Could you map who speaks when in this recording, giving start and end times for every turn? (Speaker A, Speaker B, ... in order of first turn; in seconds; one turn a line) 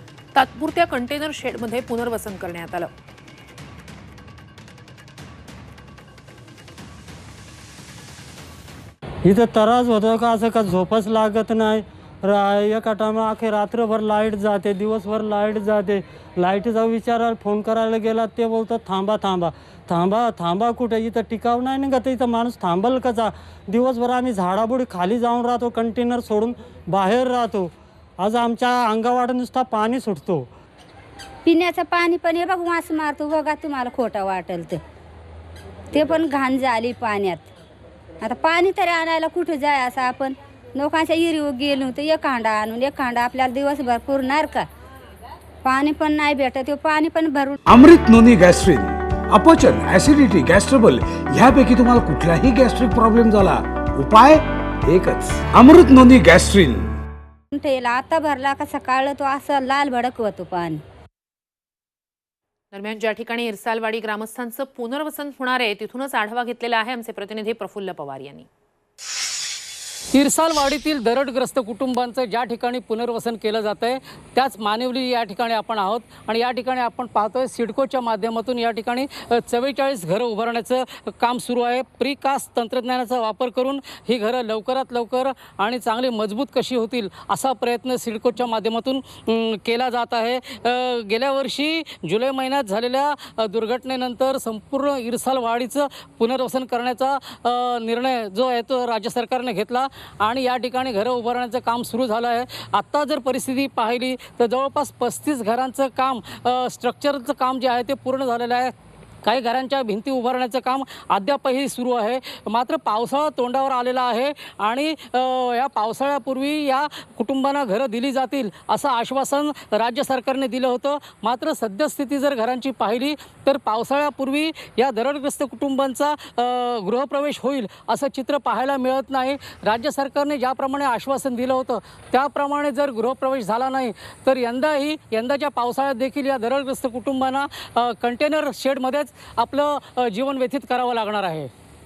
Speaker A: 0.3-2.9
Speaker B: 9.3-30.4
Speaker C: 31.4-34.8
Speaker C: 35.9-37.5
Speaker C: 38.2-44.7
Speaker C: 45.6-47.5
Speaker D: 47.7-56.9
Speaker C: 57.5-60.8
Speaker A: 62.7-68.5
Speaker E: 70.1-108.7
Speaker E: 109.2-141.5